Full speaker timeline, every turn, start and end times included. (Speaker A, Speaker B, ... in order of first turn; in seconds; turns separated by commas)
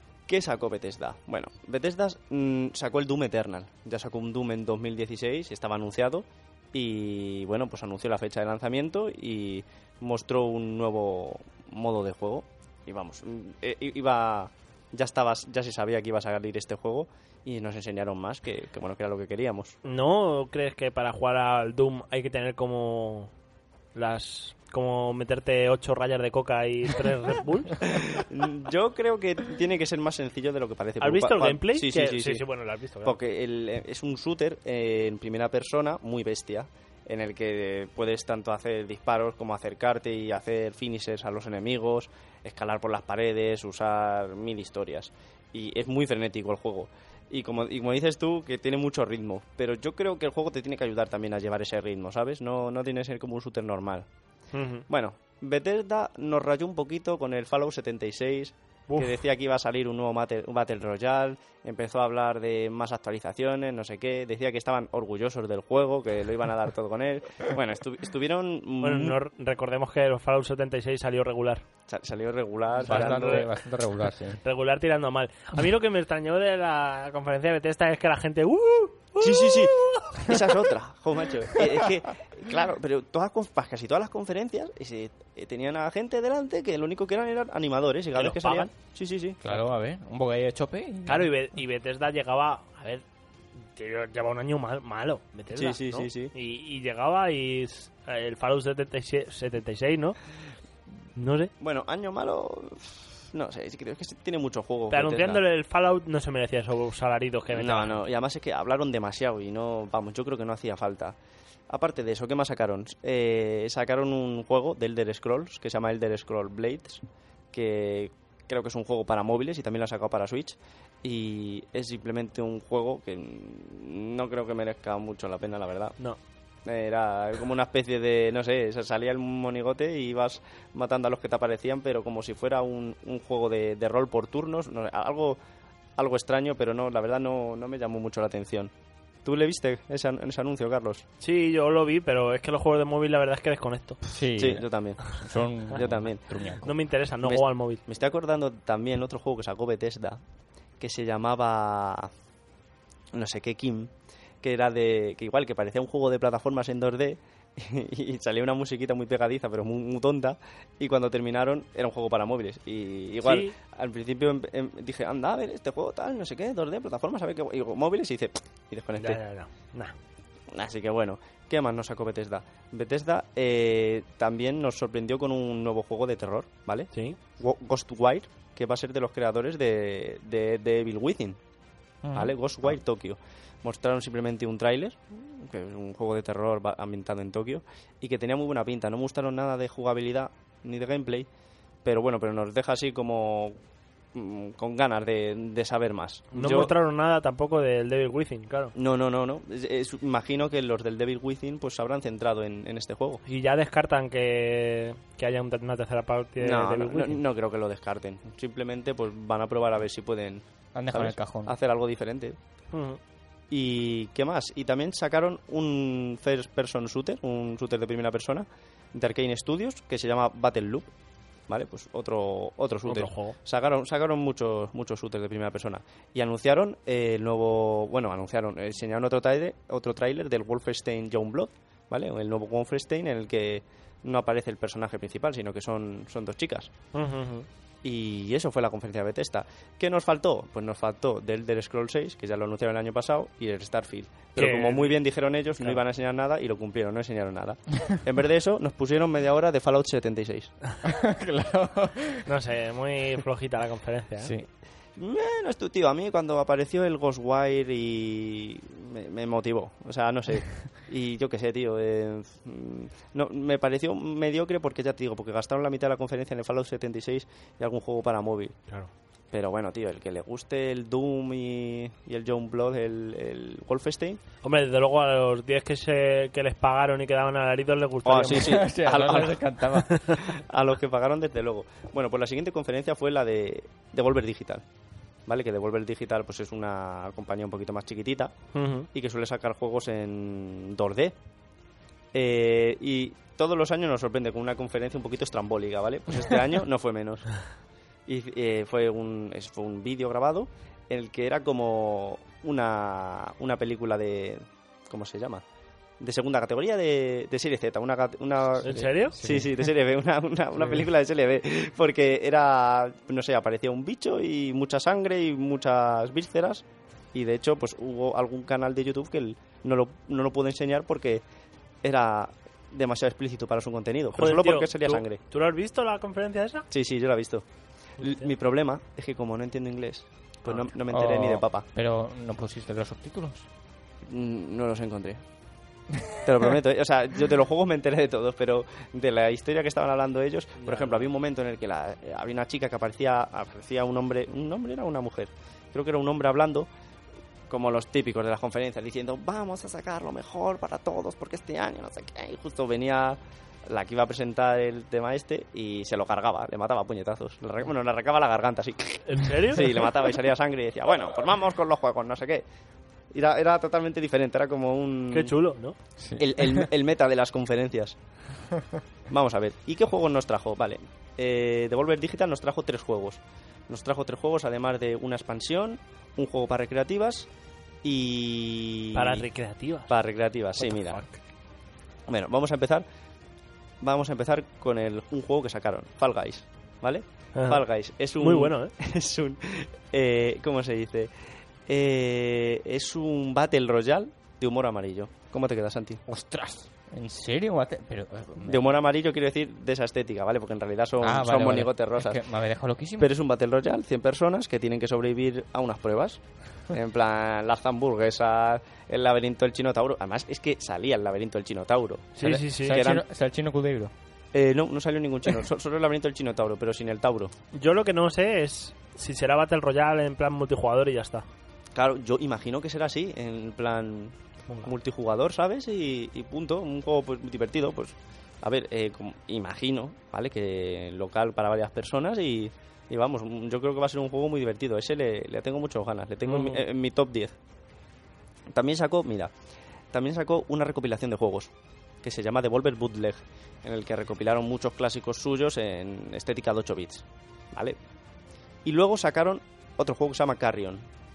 Speaker A: 0.3-19.8, Speaker B: 19.8-23.3, Speaker B: 23.9-27.8, Speaker A: 27.8-32.4, Speaker B: 31.0-33.1, Speaker A: 33.0-54.0, Speaker B: 54.5-54.9, Speaker A: 54.9-69.2, Speaker B: 58.9-59.2, Speaker B: 68.8-71.6, Speaker A: 71.9-73.5, Speaker B: 72.8-73.5, Speaker C: 72.8-74.4, Speaker B: 74.4-80.5, Speaker A: 79.2-89.4, Speaker B: 88.2-88.7, Speaker C: 89.4-91.3, Speaker B: 91.0-93.0, Speaker B: 93.6-100.2, Speaker A: 95.5-96.3, Speaker B: 101.1-101.5, Speaker A: 101.6-105.4, Speaker B: 104.9-108.0, Speaker A: 107.5-111.2, Speaker A: 111.7-117.0, Speaker A: 117.5-126.0, Speaker A: 126.7-135.4, Speaker A: 136.0-138.7, Speaker A: 139.2-141.0, Speaker B: 141.2-144.0, Speaker C: 144.1-146.7, Speaker A: 144.3-146.3, Speaker B: 146.6-147.8, Speaker A: 147.2-150.2, Speaker A: 150.8-152.1, Speaker A: 153.1-153.9, Speaker A: 154.4-169.2, Speaker B: 163.2-163.5, Speaker B: 169.0-169.9, Speaker A: 170.5-181.4, Speaker B: 176.9-177.2, Speaker C: 182.0-182.3, Speaker A: 182.1-191.3, Speaker A: 191.8-193.6, Speaker A: 194.1-196.7, Speaker B: 196.3-198.7, Speaker A: 198.7-203.2, Speaker B: 203.2-207.2, Speaker A: 206.4-212.3, Speaker C: 210.7-211.5, Speaker B: 212.7-213.0, Speaker A: 213.5-220.9, Speaker A: 221.5-236.7, Speaker B: 222.9-223.3, Speaker B: 236.9-237.5, Speaker A: 237.8-250.5, Speaker B: 244.4-244.9, Speaker C: 250.8-252.3, Speaker B: 252.2-254.3, Speaker C: 254.2-254.5, Speaker A: 255.0-268.6, Speaker A: 269.3-274.2, Speaker B: 274.4-278.6, Speaker A: 278.0-279.4, Speaker C: 278.3-280.0, Speaker A: 280.2-284.6, Speaker A: 285.3-288.3, Speaker B: 288.5-288.9, Speaker A: 288.9-291.1, Speaker A: 292.1-297.4, Speaker A: 298.1-305.4, Speaker A: 306.0-321.2, Speaker C: 308.6-309.7, Speaker B: 308.6-309.2, Speaker A: 321.8-325.2, Speaker B: 324.1-326.6, Speaker A: 326.7-327.4, Speaker B: 328.0-328.3, Speaker A: 328.0-331.6, Speaker C: 330.9-333.5, Speaker A: 334.1-335.2, Speaker A: 336.2-346.7, Speaker B: 340.6-341.1, Speaker A: 347.5-362.4, Speaker B: 359.1-359.6, Speaker A: 363.1-365.3, Speaker B: 365.1-365.8, Speaker C: 366.0-366.7, Speaker A: 366.2-368.0, Speaker C: 368.5-368.8, Speaker A: 369.1-377.3, Speaker A: 377.8-379.2, Speaker B: 378.9-379.9, Speaker A: 379.9-381.0, Speaker B: 380.6-381.2, Speaker A: 382.1-382.8, Speaker A: 383.8-391.1, Speaker B: 387.4-387.6, Speaker B: 388.2-388.7, Speaker A: 391.7-396.0, Speaker C: 396.1-398.7, Speaker A: 398.4-402.2, Speaker C: 401.0-403.1, Speaker A: 403.0-413.0, Speaker B: 412.2-412.8, Speaker C: 412.3-413.9, Speaker A: 414.3-417.3, Speaker B: 417.5-421.2, Speaker A: 421.7-437.3, Speaker B: 436.2-436.6, Speaker A: 438.5-439.3, Speaker A: 439.9-441.5, Speaker A: 442.0-447.8, Speaker A: 448.6-450.8